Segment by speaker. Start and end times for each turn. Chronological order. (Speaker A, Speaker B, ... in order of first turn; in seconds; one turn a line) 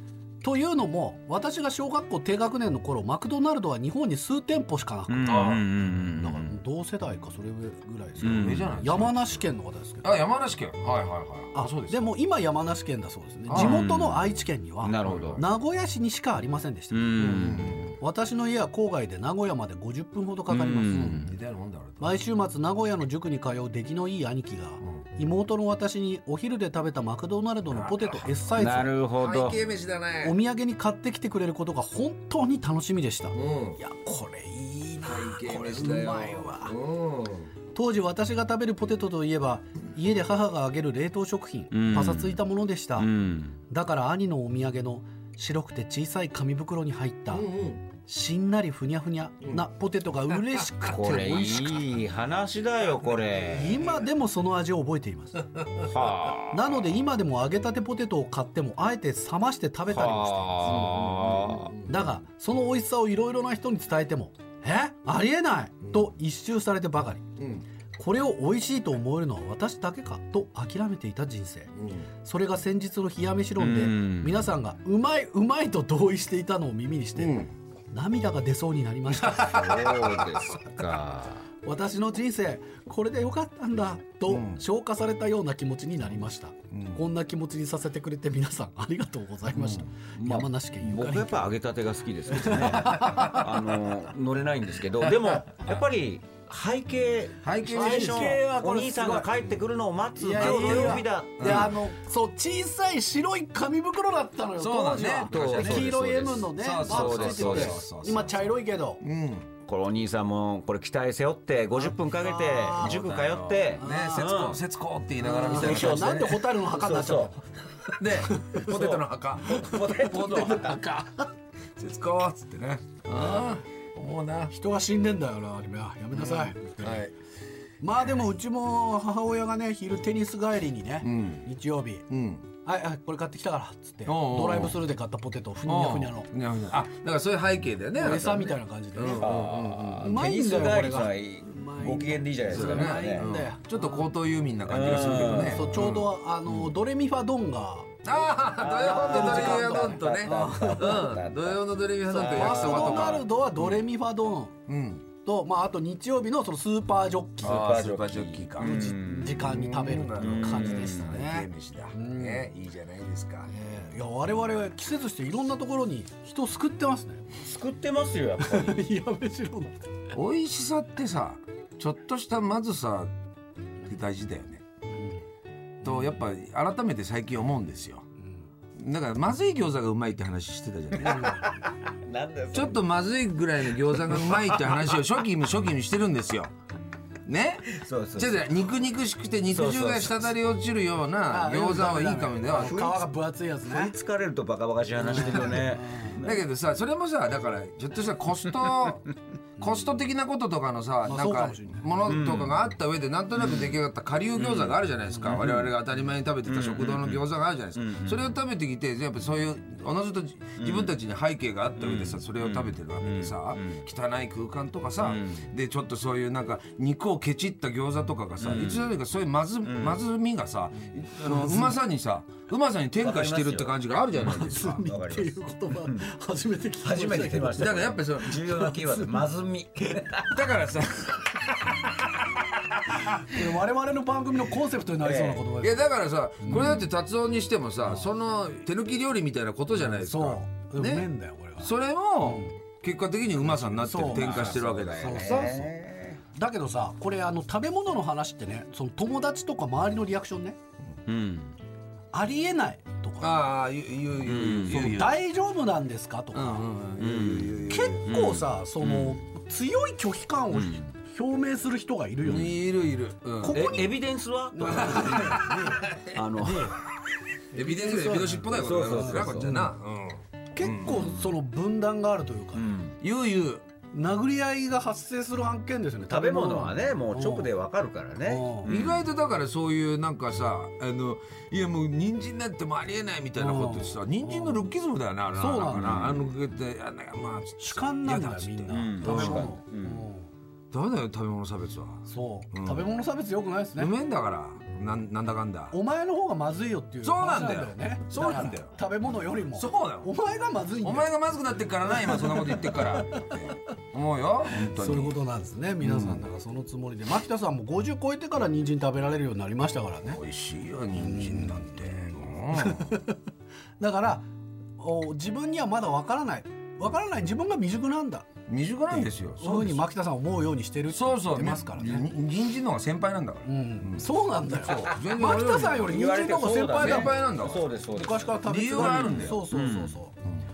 Speaker A: 0.4-5.5
Speaker B: 5.1-6.5
Speaker C: 5.2-5.6
Speaker A: 6.2-10.2
Speaker B: 8.2-8.8
Speaker C: 8.2-9.4
Speaker C: 10.0-12.1
Speaker A: 11.5-21.2
Speaker C: 13.5-14.0
Speaker B: 13.5-14.2
Speaker B: 14.8-15.4
Speaker C: 15.0-15.4
Speaker B: 16.9-17.9
Speaker C: 17.1-17.9
Speaker B: 20.5-21.3
Speaker C: 20.9-22.2
Speaker A: 22.0-28.9
Speaker C: 27.7-28.6
Speaker B: 28.6-29.6
Speaker C: 29.1-30.4
Speaker A: 30.2-36.8
Speaker C: 33.3-33.8
Speaker C: 35.0-37.5
Speaker A: 37.7-43.1
Speaker B: 41.7-42.4
Speaker B: 43.0-43.6
Speaker A: 43.7-51.9
Speaker C: 47.3-47.8
Speaker B: 50.9-54.0
Speaker A: 53.5-55.6
Speaker B: 55.8-56.8
Speaker A: 56.5-60.8
Speaker B: 59.9-61.7
Speaker C: 60.6-62.1
Speaker A: 61.9-67.3
Speaker C: 67.4-67.6
Speaker A: 68.0-80.0
Speaker C: 71.7-72.1
Speaker B: 73.6-74.5
Speaker C: 77.2-77.5
Speaker C: 79.3-79.6
Speaker B: 79.3-81.5
Speaker C: 80.3-80.7
Speaker A: 81.6-91.5
Speaker C: 84.3-84.6
Speaker C: 86.7-87.0
Speaker C: 89.5-89.9
Speaker B: 90.1-101.7
Speaker A: 92.3-93.3
Speaker C: 92.8-93.4
Speaker C: 97.4-98.4
Speaker A: 97.7-99.3
Speaker A: 100.2-109.0
Speaker C: 100.3-101.8
Speaker C: 104.5-106.0
Speaker B: 105.3-107.8
Speaker C: 106.5-109.5
Speaker B: 109.6-114.6
Speaker A: 111.8-112.9
Speaker C: 112.7-116.4
Speaker A: 113.8-114.4
Speaker A: 115.2-117.4
Speaker B: 115.4-117.4
Speaker C: 117.8-124.5
Speaker A: 118.2-118.6
Speaker B: 118.5-120.8
Speaker A: 124.5-127.1
Speaker C: 126.1-127.1
Speaker A: 127.8-132.1
Speaker C: 131.0-131.5
Speaker C: 132.1-132.5
Speaker A: 132.6-136.3
Speaker C: 134.1-134.8
Speaker C: 135.6-140.1
Speaker A: 138.0-139.3
Speaker B: 139.0-143.3
Speaker A: 140.0-144.1
Speaker C: 142.5-146.6
Speaker B: 144.7-145.8
Speaker A: 145.2-148.1
Speaker C: 148.0-153.2
Speaker B: 148.5-153.2
Speaker A: 148.8-151.1
Speaker A: 152.1-154.6
Speaker C: 154.7-155.0
Speaker A: 155.2-157.6
Speaker B: 157.4-159.4
Speaker C: 157.4-163.5
Speaker A: 158.6-162.5
Speaker B: 160.2-161.1
Speaker A: 163.4-167.4
Speaker B: 167.4-168.8
Speaker A: 168.4-169.9
Speaker C: 170.1-173.1
Speaker C: 173.8-174.6
Speaker A: 174.9-175.2
Speaker A: 175.8-176.1
Speaker C: 175.8-178.0
Speaker C: 178.8-181.4
Speaker A: 181.0-181.5
Speaker B: 181.0-182.8
Speaker C: 182.5-186.5
Speaker B: 183.9-184.8
Speaker C: 187.2-192.9
Speaker B: 187.7-188.7
Speaker B: 189.4-190.3
Speaker A: 191.3-193.9
Speaker B: 192.5-193.1
Speaker B: 193.7-196.4
Speaker A: 194.9-196.2
Speaker C: 196.2-199.1
Speaker C: 199.6-224.8
Speaker A: 199.6-199.9
Speaker A: 201.0-201.9
Speaker B: 202.0-202.6
Speaker B: 203.3-203.8
Speaker B: 204.3-205.7
Speaker A: 205.1-205.4
Speaker B: 206.4-208.3
Speaker B: 210.6-210.9
Speaker B: 211.8-213.8
Speaker B: 215.0-215.5
Speaker B: 218.4-218.9
Speaker B: 219.6-220.0
Speaker A: 221.2-221.8
Speaker B: 223.0-223.8
Speaker A: 224.1-229.2
Speaker B: 224.3-226.1
Speaker B: 226.8-230.5
Speaker C: 227.5-228.6
Speaker C: 230.3-232.1
Speaker A: 233.2-235.8
Speaker B: 235.0-235.4
Speaker C: 235.6-241.1
Speaker A: 236.4-236.8
Speaker A: 237.8-238.1
Speaker A: 239.8-242.5
Speaker C: 241.6-245.7
Speaker A: 243.4-245.6
Speaker B: 243.9-246.2
Speaker A: 246.3-250.6
Speaker B: 251.1-251.5
Speaker A: 252.1-253.5
Speaker C: 253.2-255.1
Speaker B: 254.2-255.0
Speaker A: 254.7-256.7
Speaker C: 256.3-258.1
Speaker B: 257.0-259.2
Speaker A: 257.7-262.6
Speaker B: 260.5-260.9
Speaker B: 262.2-262.5
Speaker C: 262.2-263.9
Speaker A: 263.4-266.8
Speaker B: 263.5-266.8
Speaker C: 264.6-266.2
Speaker C: 267.5-271.3
Speaker A: 267.5-269.7
Speaker B: 268.4-269.6
Speaker A: 270.5-272.7
Speaker B: 272.5-273.0
Speaker C: 273.0-273.6
Speaker A: 273.9-277.5
Speaker B: 276.1-279.1
Speaker A: 278.2-278.7
Speaker C: 278.7-289.5
Speaker A: 283.4-284.7
Speaker A: 285.3-286.2
Speaker B: 285.8-286.1
Speaker A: 287.6-290.3
Speaker B: 288.7-290.0
Speaker C: 290.7-292.9
Speaker A: 292.0-293.9
Speaker C: 293.8-295.8
Speaker A: 295.7-301.1
Speaker C: 297.0-298.8
Speaker C: 299.5-300.1
Speaker C: 300.8-305.2
Speaker A: 301.8-303.5
Speaker A: 304.5-310.2
Speaker C: 305.8-306.2
Speaker C: 310.0-312.9
Speaker A: 310.9-313.2
Speaker A: 313.8-314.2
Speaker A: 314.8-318.3
Speaker C: 318.5-319.8
Speaker A: 318.9-322.1
Speaker C: 320.9-326.0
Speaker A: 323.4-327.2
Speaker B: 325.9-330.0
Speaker C: 326.7-327.7
Speaker A: 327.9-330.2
Speaker C: 328.4-329.4